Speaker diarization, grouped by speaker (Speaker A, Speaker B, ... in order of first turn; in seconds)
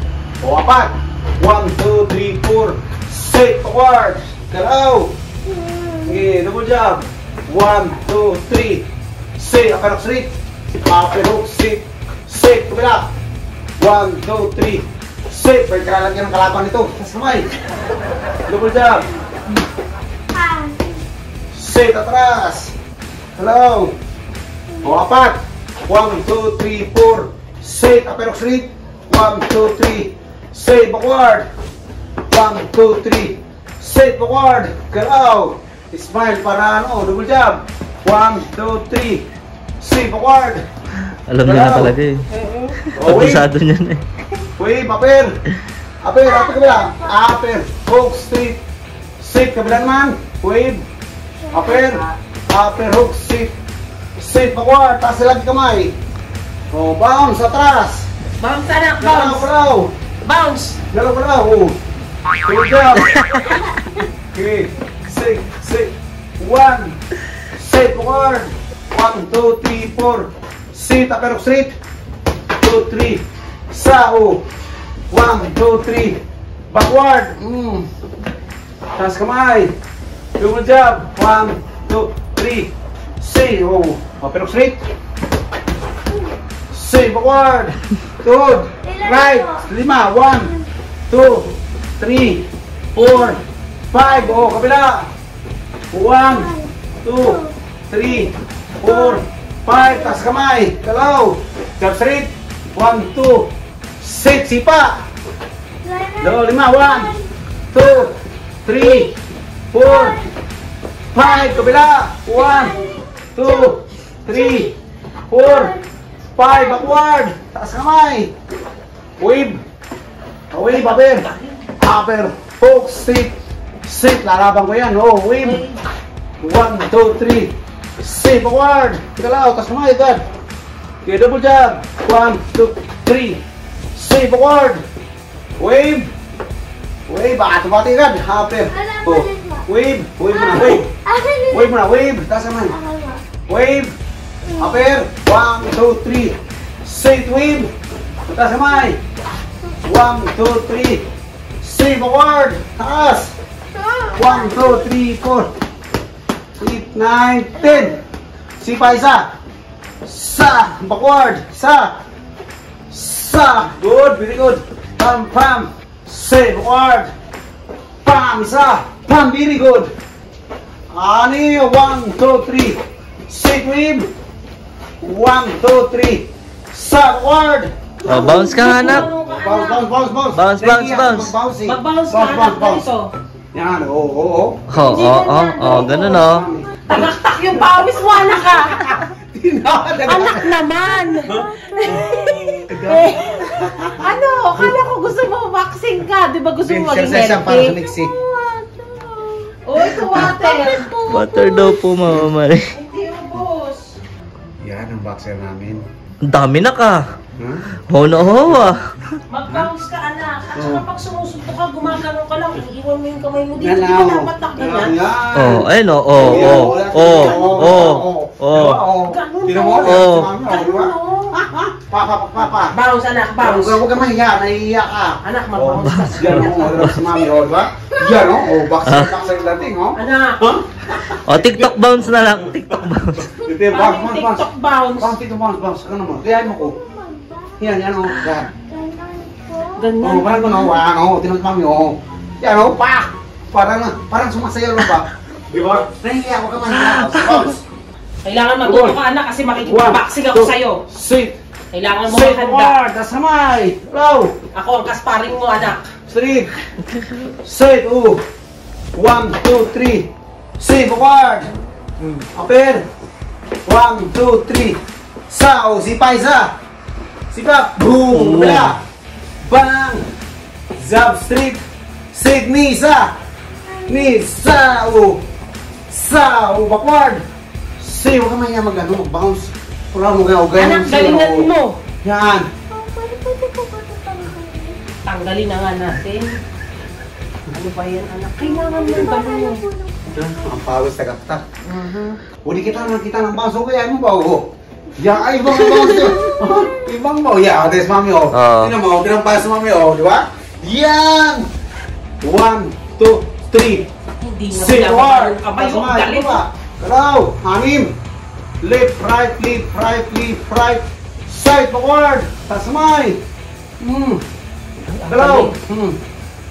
Speaker A: 0.4-5.1, 6.0-8.8, 9.4-10.3, 10.8-13.1, 13.8-17.5, 18.5-19.1, 21.5-22.7, 23.4-23.9, 24.8-31.4, 32.3-39.2, 39.8-40.6, 41.4-42.0, 43.0-43.4, 44.6-45.3, 46.0-48.6, 49.2-50.8, 51.5-53.5, 54.2-55.9, 56.7-58.1, 59.0-59.9, 60.9-61.8, 62.4-63.1, 64.3-67.0, 67.5-71.8, 72.6-74.4, 75.1-76.2, 76.7-77.8, 79.0-79.7, 80.4-84.8, 86.7-90.5, 91.1-93.4, 93.9-95.1, 95.9-96.5, 97.0-97.4, 97.9-103.5, 104.0-104.9, 106.2-107.1, 107.7-109.1, 109.7-110.2, 111.1-112.8, 113.3-114.7, 115.3-115.7, 116.3-118.3, 119.2-119.6, 120.5-121.3, 121.8-123.3, 123.8-125.6, 126.4-130.2, 131.0-133.4, 133.9-134.8, 135.6-136.1, 137.1-140.9, 141.5-142.7, 143.5-143.9, 144.6-147.7, 148.3-149.0, 149.8-151.0, 151.6-153.3, 154.2-155.5, 156.6-158.0, 158.6-159.3, 160.0-161.9, 162.9-167.1, 168.0-169.9, 170.9-172.8, 173.3-174.1, 175.0-182.8, 183.5-184.7, 185.6-187.0, 187.5-190.5, 191.2-192.0, 192.7-194.1, 196.6-198.1, 199.9-200.3, 204.6-205.8, 207.4-207.7, 210.5-210.8, 213.6-222.7, 223.4-231.8, 233.4-236.8, 237.6-238.5, 240.0-247.6, 248.6-249.0, 249.6-251.4, 252.0-254.3, 256.1-256.5, 257.4-258.2, 258.9-261.5, 262.1-262.8, 263.6-264.8, 265.3-266.5, 267.3-268.8, 269.5-270.0, 270.8-271.6, 272.1-273.1, 273.9-275.2, 275.9-277.2, 277.8-281.5, 282.0-282.5, 290.1-291.4, 292.4-294.4, 294.9-301.4, 302.2-303.9, 304.5-307.9, 308.6-313.2, 313.8-314.2, 315.1-316.0
Speaker B: 5.5-6.3, 20.3-21.0, 24.7-25.0, 46.2-47.2, 51.4-52.1, 88.8-89.7, 90.3-90.7, 93.0-93.4, 94.0-94.6, 96.2-97.5, 98.8-99.2, 99.7-100.3, 105.8-107.3, 108.7-109.1, 109.8-110.3, 111.2-111.8, 112.3-113.7, 114.3-114.7, 115.4-115.8, 116.4-117.0, 138.7-139.7, 140.3-141.8, 142.7-143.3, 144.4-144.8, 154.1-154.7, 190.8-192.5, 197.8-199.5, 200.1-202.0, 227.4-229.8, 236.2-237.9, 238.5-240.0, 273.6-274.2, 282.7-284.8, 288.4-290.1, 295.8-296.7
Speaker C: 41.3-42.2, 42.9-44.0, 178.1-179.1, 180.3-181.3, 184.7-186.4, 201.1-202.6, 206.2-207.0, 207.9-208.8, 215.3-218.8, 219.8-220.3, 225.8-227.0, 228.9-229.2, 231.2-233.2, 246.8-247.4, 268.0-268.7, 298.3-298.7
Speaker D: 42.3-42.8, 58.4-59.5, 60.2-60.8, 120.7-121.6, 125.4-125.8, 153.8-154.2, 178.0-179.8, 181.6-183.1, 184.8-186.2, 186.9-189.0, 190.0-197.8, 199.6-200.8, 202.7-203.9, 209.3-215.0, 216.2-217.8, 219.1-221.4, 222.7-223.8, 225.2-226.8, 229.9-230.5, 233.7-235.1, 239.8-240.7, 248.2-250.8, 251.7-252.8, 254.5-255.9, 280.6-281.8, 285.1-286.3, 287.5-289.6, 291.6-292.2, 304.2-306.4, 314.9-315.6